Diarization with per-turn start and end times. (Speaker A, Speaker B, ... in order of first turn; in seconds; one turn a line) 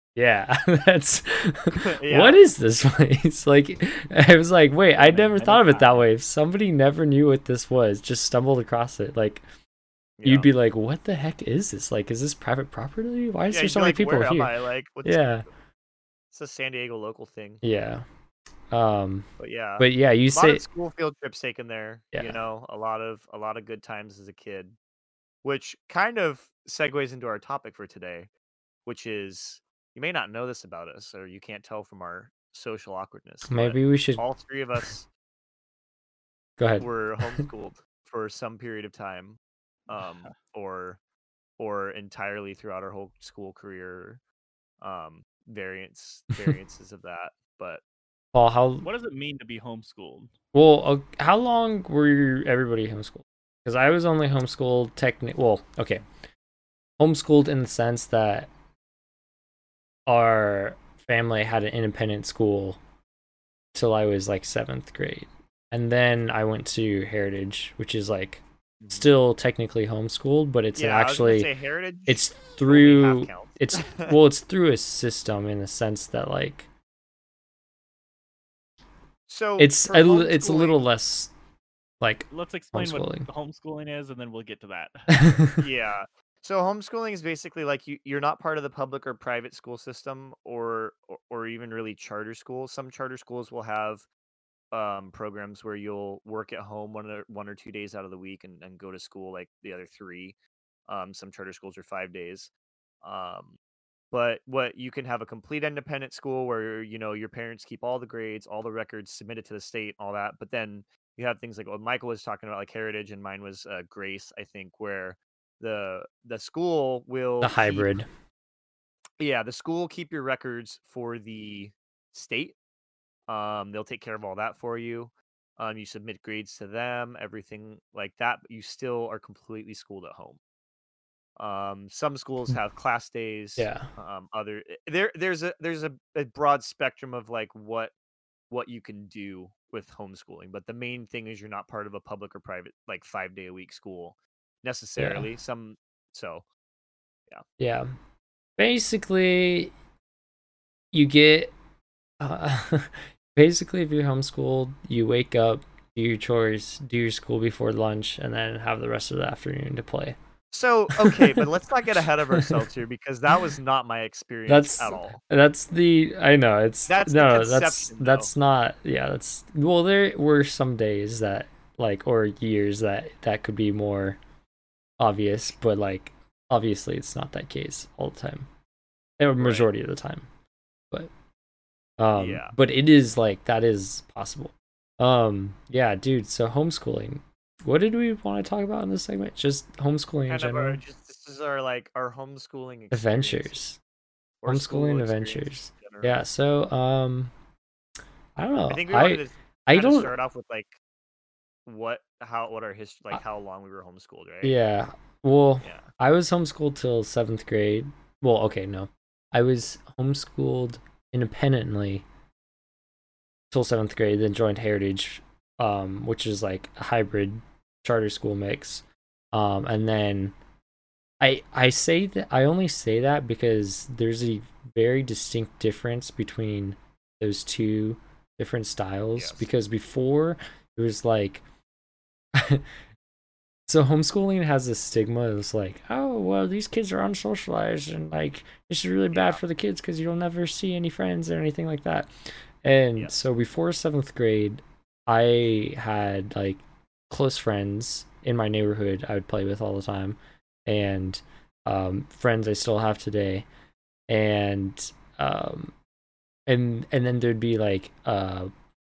Speaker A: 0.1-9.4
Speaker B: 1.7-2.5
Speaker C: 5.0-6.1
Speaker B: 10.2-10.5
Speaker A: 10.2-14.5
Speaker B: 13.5-15.4
Speaker A: 15.1-15.4
Speaker B: 16.3-17.6
Speaker A: 17.6-18.1
Speaker A: 18.7-19.3
Speaker B: 19.4-24.8
Speaker A: 19.8-20.6
Speaker A: 22.1-22.4
Speaker B: 25.4-28.3
Speaker B: 28.9-35.1
Speaker A: 33.5-34.2
Speaker A: 36.6-37.5
Speaker B: 36.8-41.0
Speaker C: 39.9-40.3
Speaker B: 41.6-44.2
Speaker B: 44.8-47.8
Speaker A: 48.3-48.9
Speaker C: 48.8-50.3
Speaker A: 50.5-56.0
Speaker A: 57.0-58.5
Speaker A: 60.1-62.8
Speaker A: 63.7-71.5
Speaker B: 68.8-69.1
Speaker B: 70.8-74.2
Speaker A: 72.1-76.7
Speaker B: 79.3-80.8
Speaker A: 79.6-81.3
Speaker A: 82.0-83.3
Speaker C: 82.3-85.2
Speaker A: 85.1-85.7
Speaker B: 85.6-94.1
Speaker B: 94.7-100.4
Speaker B: 100.9-102.5
Speaker B: 103.0-103.6
Speaker B: 104.1-117.9
Speaker A: 117.4-118.1
Speaker B: 119.2-122.6
Speaker B: 123.3-130.4
Speaker B: 131.4-137.9
Speaker A: 133.6-133.9
Speaker B: 138.5-146.4
Speaker A: 145.0-145.3
Speaker A: 147.6-147.9
Speaker A: 148.6-149.7
Speaker A: 150.9-151.5
Speaker A: 152.2-160.2
Speaker B: 160.5-165.2
Speaker A: 160.9-161.5
Speaker A: 162.3-162.7
Speaker A: 164.5-174.2
Speaker B: 166.9-168.3
Speaker A: 175.0-178.5
Speaker A: 179.2-180.3
Speaker B: 179.4-179.7
Speaker A: 182.0-190.8
Speaker B: 182.2-182.5
Speaker B: 190.3-193.6
Speaker A: 192.9-193.8
Speaker B: 194.4-196.2
Speaker A: 194.4-197.3
Speaker A: 198.4-200.1
Speaker B: 198.7-200.8
Speaker B: 201.7-204.6
Speaker A: 204.4-212.1
Speaker B: 205.6-205.9
Speaker A: 213.5-220.4
Speaker A: 221.2-231.4
Speaker B: 229.2-229.4
Speaker A: 232.3-232.6
Speaker A: 233.7-242.1
Speaker B: 239.1-239.4
Speaker A: 242.6-253.5
Speaker A: 254.1-255.7
Speaker A: 256.5-258.5